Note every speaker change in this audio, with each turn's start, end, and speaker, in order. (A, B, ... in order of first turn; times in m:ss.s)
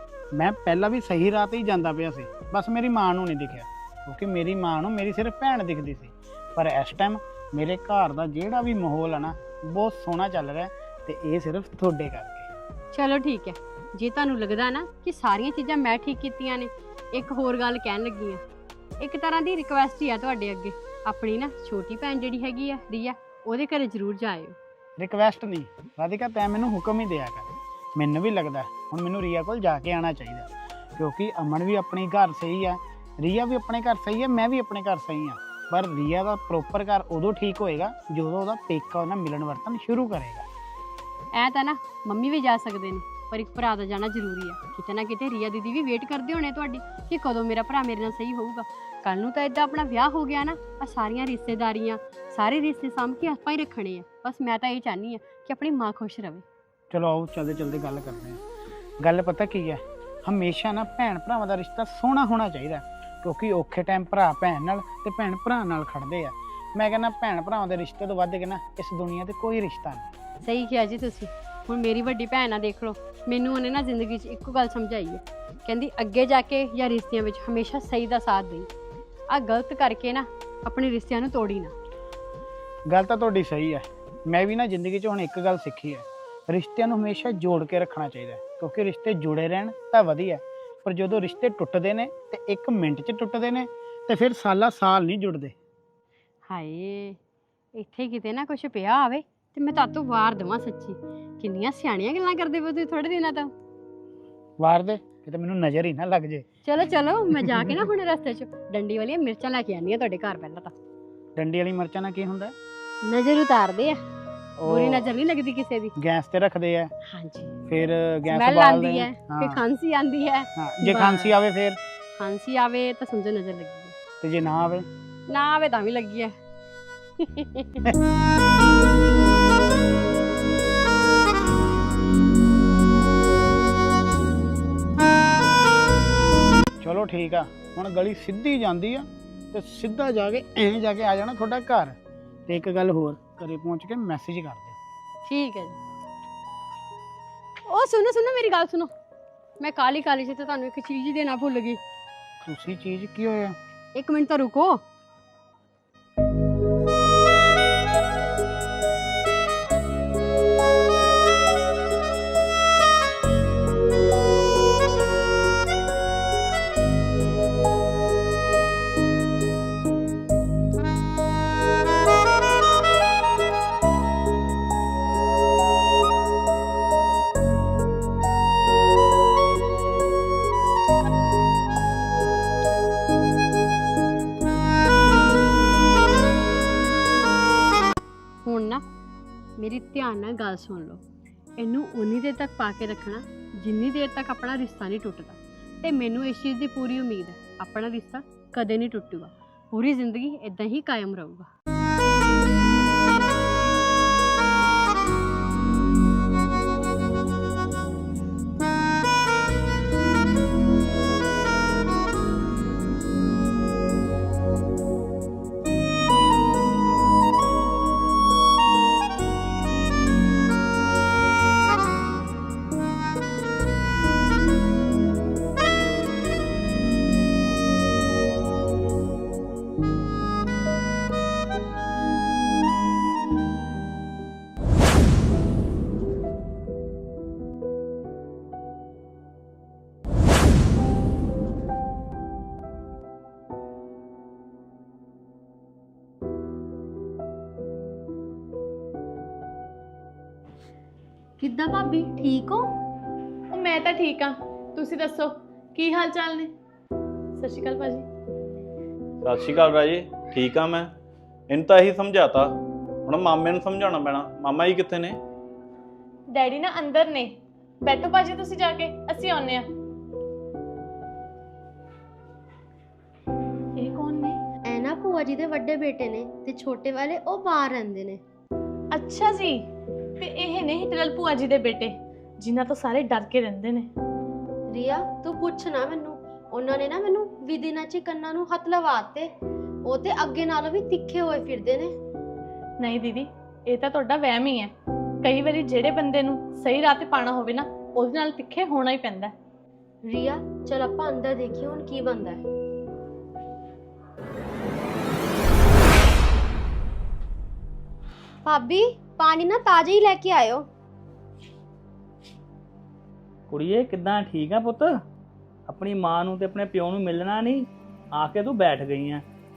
0:00.3-0:12.5 A
0:12.9-0:18.4 B
0:19.0-0:24.6 B
0:25.0-0:40.5 A
0:41.4-0:56.4 B
0:56.9-0:58.4 A
0:59.0-1:10.1 A
1:10.4-1:18.7 B
1:19.3-1:21.7 B
1:22.9-1:35.6 A
1:36.5-1:37.2 B
1:37.8-1:43.5 B
1:44.6-1:46.5 A
1:46.6-1:50.7 B
1:47.4-1:47.8 A
1:51.4-1:52.5 A
1:53.0-1:54.0 B
1:54.6-1:55.1 A
1:54.7-1:56.0 B
1:56.0-1:56.9 A
1:57.1-1:57.5 B
1:57.7-1:59.6 A
1:58.3-2:01.4 B
2:00.6-2:01.8 A
2:02.2-2:04.0 B
2:04.2-2:04.9 A
2:05.3-2:06.3 B
2:07.2-2:07.7 B
2:16.8-2:22.0 A
2:22.5-2:24.8 A
2:25.3-2:25.8 B
2:27.7-2:28.9 B
2:29.6-2:31.8 B
2:32.4-2:33.6 A
2:34.0-2:34.8 B
3:08.4-3:08.8 B
3:09.6-3:11.0 B
3:11.6-3:21.5 B
4:11.4-4:12.7 C
4:13.6-4:14.2 D
4:14.8-4:15.2 D
4:15.8-4:16.4 D
4:17.4-4:18.0 D
4:19.2-4:20.9 E
4:21.5-4:22.5 E
4:23.1-4:25.2 E
4:26.4-4:27.2 D
4:27.9-4:29.6 D
4:33.8-4:34.3 D
4:34.7-4:38.2 C
4:39.0-4:39.5 D
4:40.2-4:41.9 D
4:42.4-4:43.8 D
4:44.7-4:49.3 C
4:49.8-4:52.0 C
4:52.8-4:54.6 D
4:55.2-4:59.3 D
5:00.1-5:02.4 C
5:08.4-5:10.7 C
5:13.5-5:14.9 F
5:15.7-5:17.6 F
5:18.2-5:19.2 F